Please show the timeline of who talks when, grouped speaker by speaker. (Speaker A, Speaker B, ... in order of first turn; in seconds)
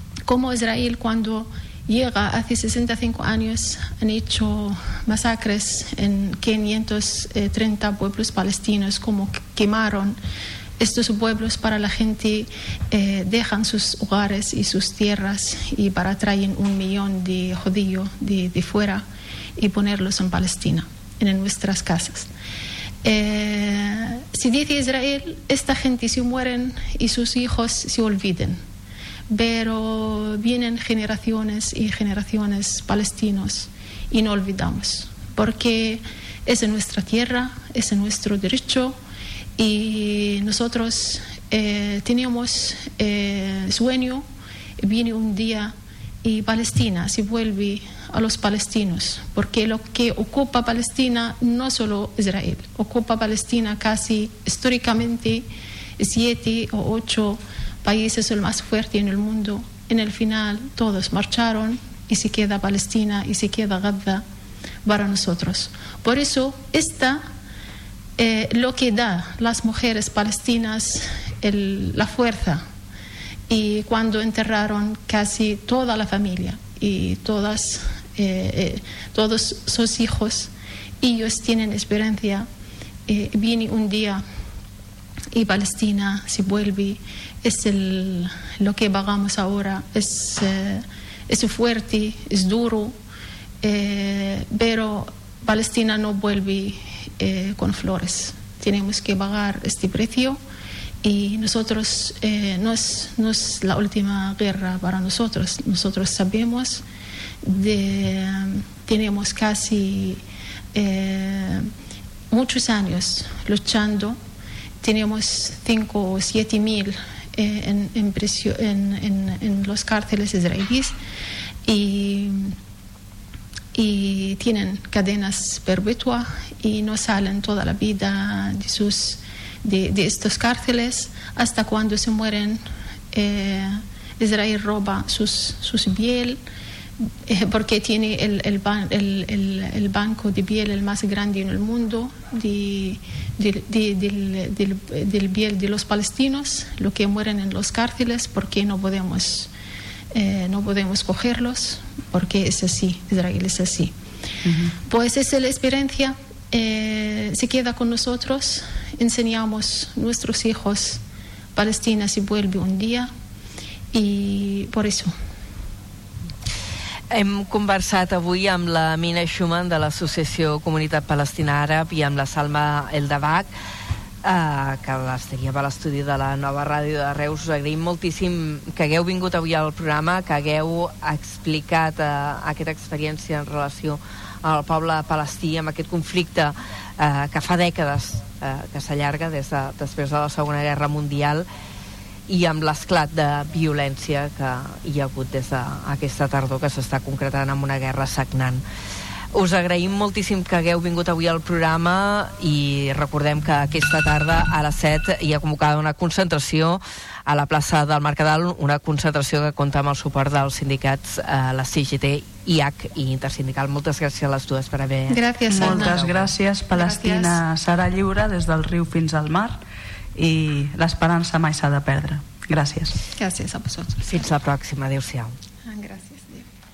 Speaker A: 0.3-10.2, 10.8-19.0, 19.6-22.3, 23.0-28.6, 29.3-39.0, 39.6-44.2, 44.8-55.5, 56.0-64.2, 64.8-67.2, 68.2-72.6, 73.5-82.5, 83.1-84.2, 85.3-93.0, 93.6-100.4, 101.0-106.8, 107.4-110.2, 110.8-111.7, 112.3-114.2, 114.8-120.9, 121.7-122.5, 123.8-132.6, 133.1-136.4, 137.3-149.5, 150.1-153.9, 154.9-161.0, 161.6-163.1, 163.9-165.1, 215.1-217.4, 223.2-224.0, 225.7-226.4
Speaker B: 154.5-154.7, 215.5-219.6, 220.2-223.0
Speaker C: 167.1-173.5, 174.2-191.5, 192.3-198.6, 199.3-216.2, 224.0-225.3